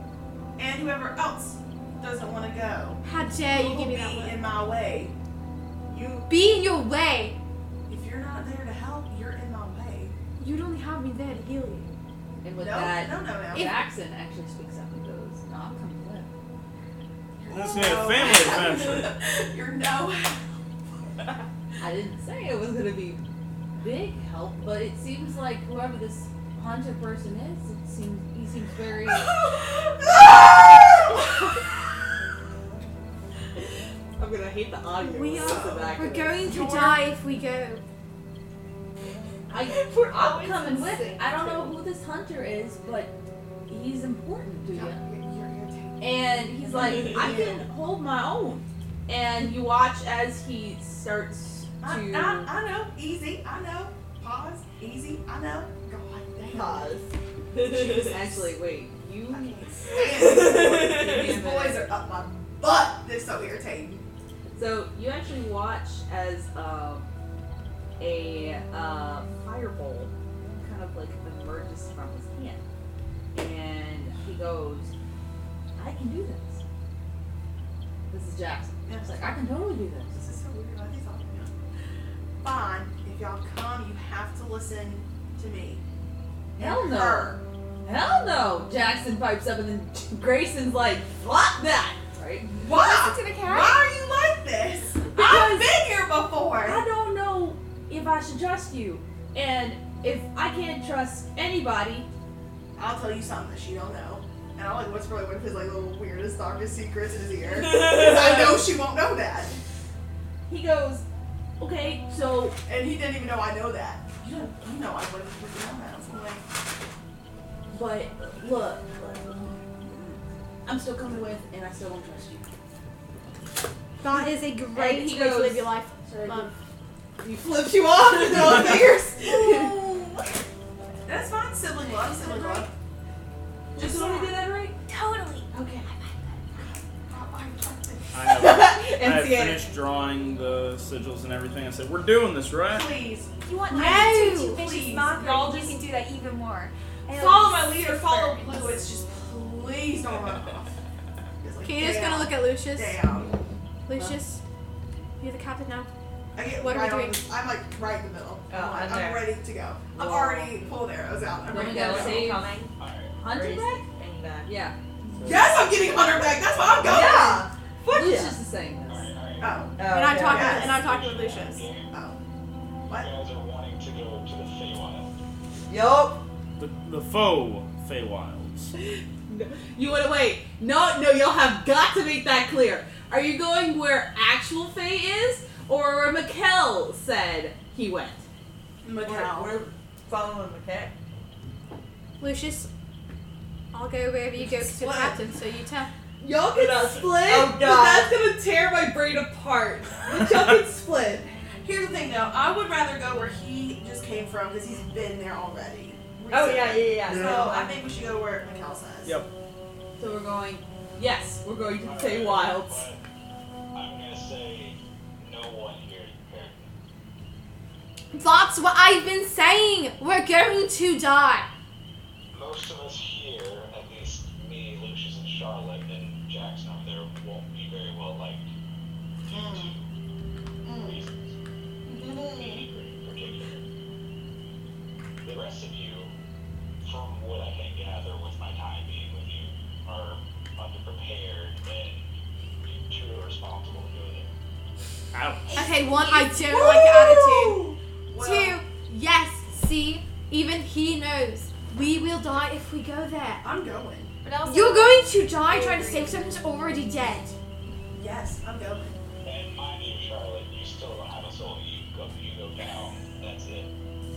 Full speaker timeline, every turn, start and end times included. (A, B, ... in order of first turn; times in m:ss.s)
0:00.6-0:05.2 A
0:03.0-0:04.5 B
0:05.9-0:06.3 C
0:06.3-0:07.4 B
0:07.9-0:10.1 A
0:10.4-0:11.9 B
0:12.4-0:16.3 D
0:12.6-0:13.7 A
0:13.5-0:13.8 B
0:17.4-0:20.6 A
0:17.5-0:19.1 E
0:21.8-0:23.2 D
0:23.8-0:29.4 D
0:29.1-0:31.4 A
0:34.2-0:36.6 D
0:35.0-0:37.8 B
0:35.4-0:35.9 A
0:36.5-0:37.1 A
0:39.5-0:43.1 D
0:40.0-0:41.7 A
0:43.7-0:45.0 D
0:44.7-0:47.6 A
0:46.0-0:52.5 D
0:51.8-0:57.0 A
0:56.5-0:57.1 C
0:57.6-0:58.6 A
0:58.0-1:01.9 D
0:59.3-1:04.0 A
1:04.5-1:07.1 D
1:08.0-1:12.6 D
1:13.3-1:14.9 D
1:15.8-1:16.6 D
1:18.1-1:20.2 D
1:18.9-1:19.4 A
1:20.1-1:21.5 A
1:22.4-1:25.8 A
1:26.6-1:27.4 A
1:26.6-1:32.5 D
1:32.6-1:36.8 A
1:32.6-1:33.8 F
1:35.2-1:35.7 D
1:36.6-1:42.1 D
1:42.8-1:49.6 A
1:50.5-1:51.0 D
1:51.6-1:52.6 D
1:52.7-1:56.4 A
1:57.7-2:02.5 D
2:04.0-2:06.5 B
2:04.2-2:06.6 D
2:07.2-2:09.8 D
2:08.1-2:10.2 A
2:11.0-2:12.7 A
2:12.0-2:12.7 F
2:13.8-2:14.8 D
2:13.8-2:16.4 F
2:15.5-2:15.8 D
2:16.6-2:18.2 A
2:18.1-2:22.9 E
2:18.3-2:19.6 D
2:22.6-2:25.8 A
2:23.4-2:28.8 F
2:23.7-2:24.6 B
2:27.1-2:30.8 A
2:31.4-2:33.4 A
2:31.6-2:33.0 B
2:33.9-2:34.4 B
2:33.9-2:34.2 D
2:35.2-2:35.9 B
2:36.4-2:42.3 A
2:36.6-2:37.3 B
2:38.5-2:39.3 C
2:40.0-2:40.6 D
2:41.5-2:42.5 D
2:41.5-2:42.7 C
2:42.8-2:43.2 G
2:43.2-2:43.9 D
2:43.3-2:44.5 C
2:44.4-2:44.8 D
2:45.2-2:45.5 E
2:45.2-2:47.5 A
2:46.8-2:48.4 C
2:47.9-2:49.1 D
2:48.9-2:49.6 G
2:49.4-2:50.8 A
2:49.8-2:50.7 C
2:49.8-2:51.7 B
2:50.7-2:51.9 G
2:51.8-2:52.2 A
2:52.9-2:55.1 G
2:55.7-2:56.2 C
2:56.6-2:58.7 E
2:58.8-3:08.2 D
3:08.8-3:09.6 A
3:09.0-3:10.9 C
3:12.2-3:12.7 B
3:13.7-3:15.9 B
3:14.4-3:15.2 A
3:16.2-3:21.2 D
3:16.6-3:18.2 C
3:17.7-3:18.3 A
3:21.6-3:29.2 A
3:26.3-3:27.8 C
3:27.1-3:27.4 E
3:30.0-3:32.9 D
3:31.8-3:33.0 G
3:33.7-3:36.7 G
3:38.1-3:41.5 B
3:42.3-3:48.5 G
3:49.3-3:49.9 G
3:49.3-3:49.6 A
3:50.7-3:51.4 G
3:52.3-3:53.7 G
3:55.2-3:56.1 G
3:56.8-4:02.1 G
4:02.6-4:04.3 G
4:05.1-4:05.6 E
4:05.5-4:06.4 F
4:05.5-4:13.4 B
4:06.3-4:08.7 A
4:13.4-4:14.1 A
4:14.2-4:16.3 F
4:14.4-4:17.4 B
4:17.9-4:18.9 A
4:19.2-4:23.7 G